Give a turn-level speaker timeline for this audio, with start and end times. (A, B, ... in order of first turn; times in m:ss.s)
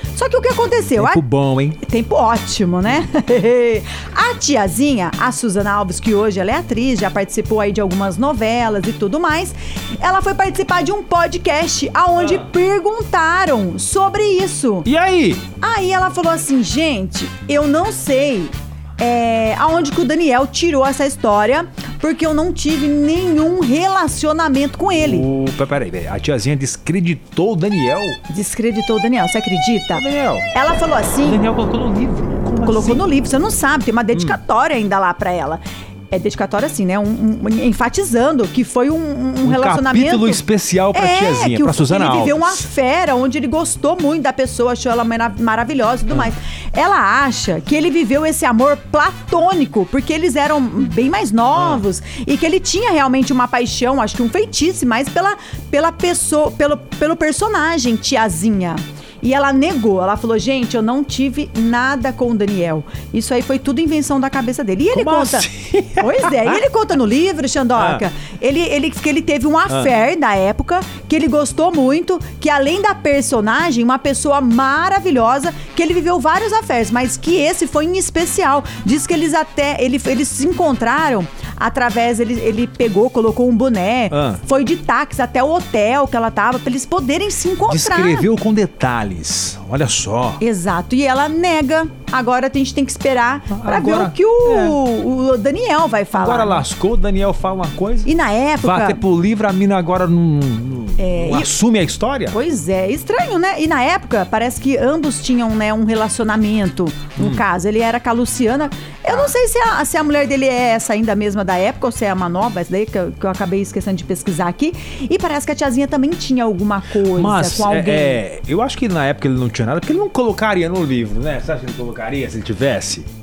0:00.1-0:01.2 A
0:01.0-0:01.8 B
0:01.8-0:14.9 A
0:12.2-0:12.5 B
0:14.8-0:15.4 B
0:15.6-0:25.3 A
0:25.0-0:28.2 B
0:28.3-0:31.4 A
0:29.9-0:30.4 B
0:31.2-0:33.0 B
0:32.6-0:40.4 A
0:39.4-0:42.6 B
0:40.9-1:28.3 A
0:51.5-0:51.8 B
1:04.9-1:06.6 B
1:07.8-1:08.0 B
1:24.1-1:24.4 B
1:27.7-1:30.4 B
1:30.4-1:36.6 A
1:33.5-1:34.8 B
1:36.1-1:38.1 B
1:38.0-1:39.0 A
1:38.6-1:42.4 B
1:41.0-1:41.5 A
1:42.3-1:58.2 A
1:47.2-1:47.4 B
1:57.1-2:03.1 B